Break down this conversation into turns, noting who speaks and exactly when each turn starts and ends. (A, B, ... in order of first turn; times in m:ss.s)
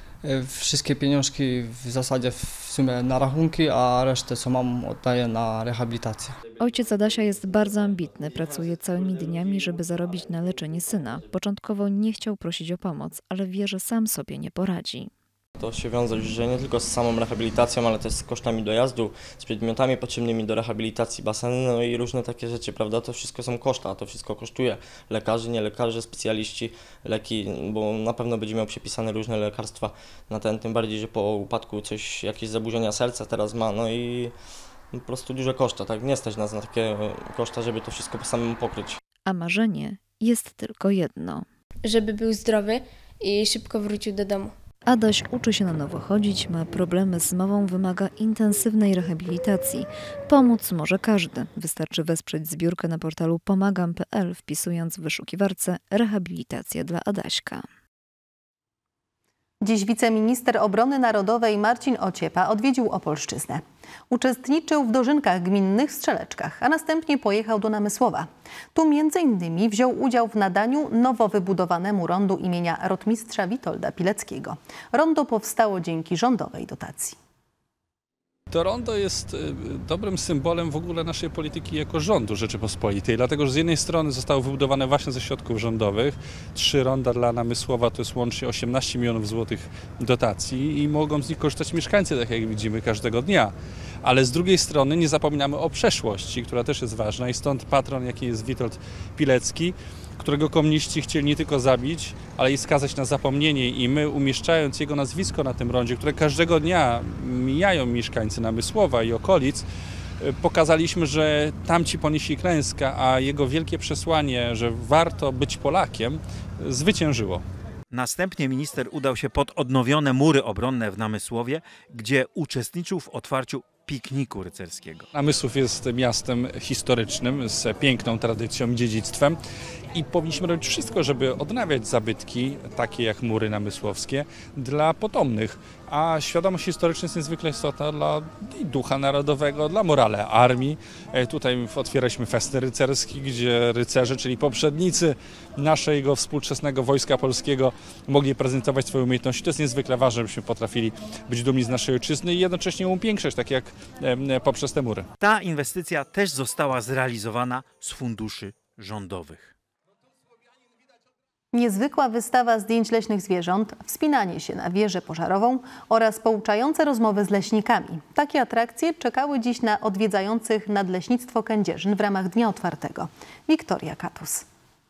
0:00.2-0:06.4 A
0:06.6-0:15.1 B
0:15.6-0:34.3 C
0:34.9-0:39.0 C
0:39.2-0:41.5 B
0:41.8-0:44.5 D
0:44.8-0:57.6 B
0:59.6-1:17.2 E
1:18.5-1:33.5 F
1:34.0-1:49.6 F
1:50.2-1:57.4 F
1:57.9-2:01.6 G
2:02.1-2:05.0 G
2:05.1-2:09.4 F
2:09.9-2:35.1 F
2:35.2-2:39.4 G
2:41.5-2:54.4 E